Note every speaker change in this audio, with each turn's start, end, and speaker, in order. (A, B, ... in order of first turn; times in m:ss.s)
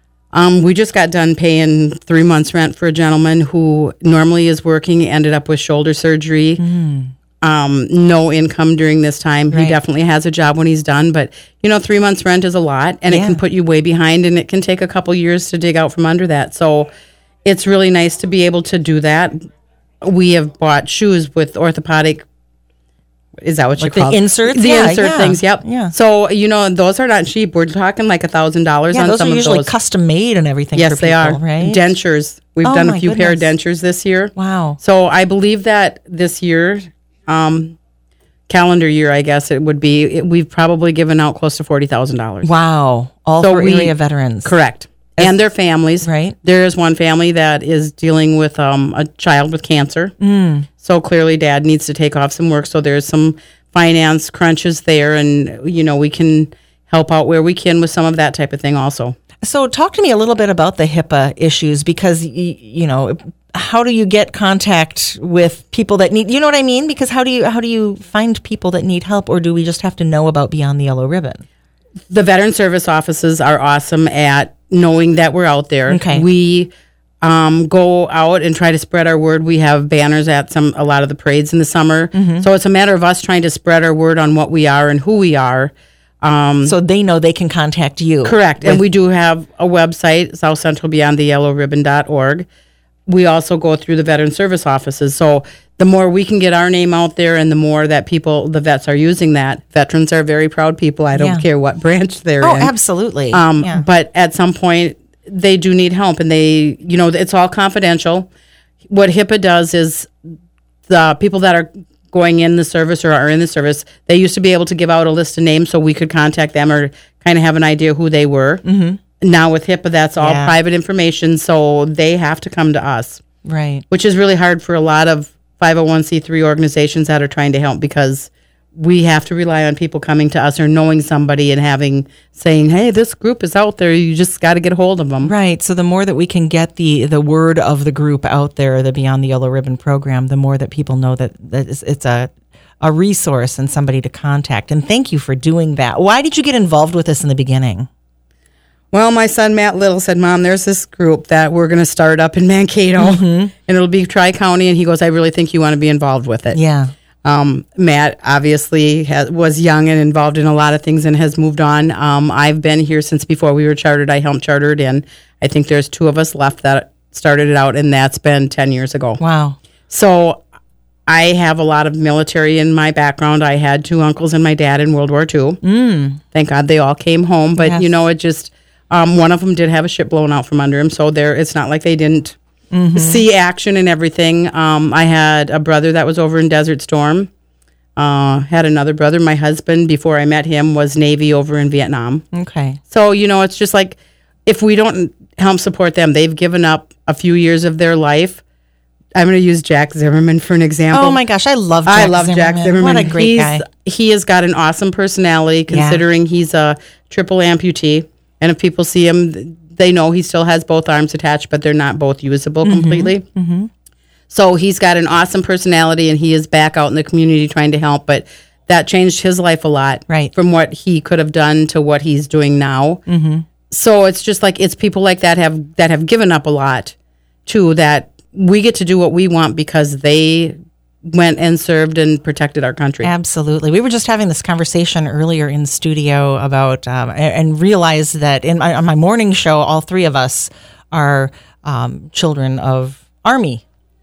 0:00.3-0:06.6 A
0:06.6-0:07.1 B
0:07.4-0:16.9 A
0:09.5-0:09.8 B
0:13.1-0:13.4 B
0:17.4-0:19.4 A
0:20.0-0:22.2 A
0:23.4-0:29.7 A
0:23.8-0:25.9 B
0:28.9-0:31.8 B
0:30.7-0:37.8 A
0:32.6-0:33.5 B
0:34.4-0:34.8 B
0:38.5-0:42.5 A
0:42.4-0:44.5 B
0:43.4-0:50.1 A
0:46.0-0:46.4 B
0:50.2-0:50.7 B
0:50.8-0:59.2 A
0:59.4-1:11.4 B
1:12.1-1:16.7 A
1:15.9-1:16.2 B
1:17.2-1:26.7 A
1:22.1-1:22.5 B
1:26.6-1:28.4 B
1:28.2-1:32.4 A
1:33.1-1:42.7 A
1:41.1-1:41.4 B
1:42.4-1:43.8 B
1:43.3-1:48.3 A
1:48.9-1:50.1 A
1:50.9-1:58.6 A
1:58.6-1:59.0 B
1:59.2-2:03.2 A
2:00.2-2:00.6 B
2:03.4-2:03.8 B
2:03.9-2:15.3 A
2:15.2-2:27.9 B
2:28.9-2:36.6 A
2:33.0-2:33.5 B
2:36.5-2:36.9 B
2:37.2-2:49.2 A
2:49.2-2:49.6 B
2:49.9-2:50.4 A
2:51.1-2:55.6 A
2:55.6-2:56.2 B
2:56.3-3:02.4 A
2:57.6-2:57.8 B
3:02.7-3:03.2 B
3:02.9-3:07.3 A
3:08.0-3:12.2 A
3:12.3-3:12.8 B
3:12.9-3:18.4 A
3:19.1-3:21.2 A
3:20.9-3:23.6 B
3:21.8-3:33.2 A
3:25.7-3:26.0 B
3:32.6-3:33.7 B
3:34.3-3:43.0 A
3:43.1-3:43.5 B
3:43.7-3:46.9 A
3:47.4-3:50.5 A
3:51.1-3:53.1 A
3:53.0-4:03.6 B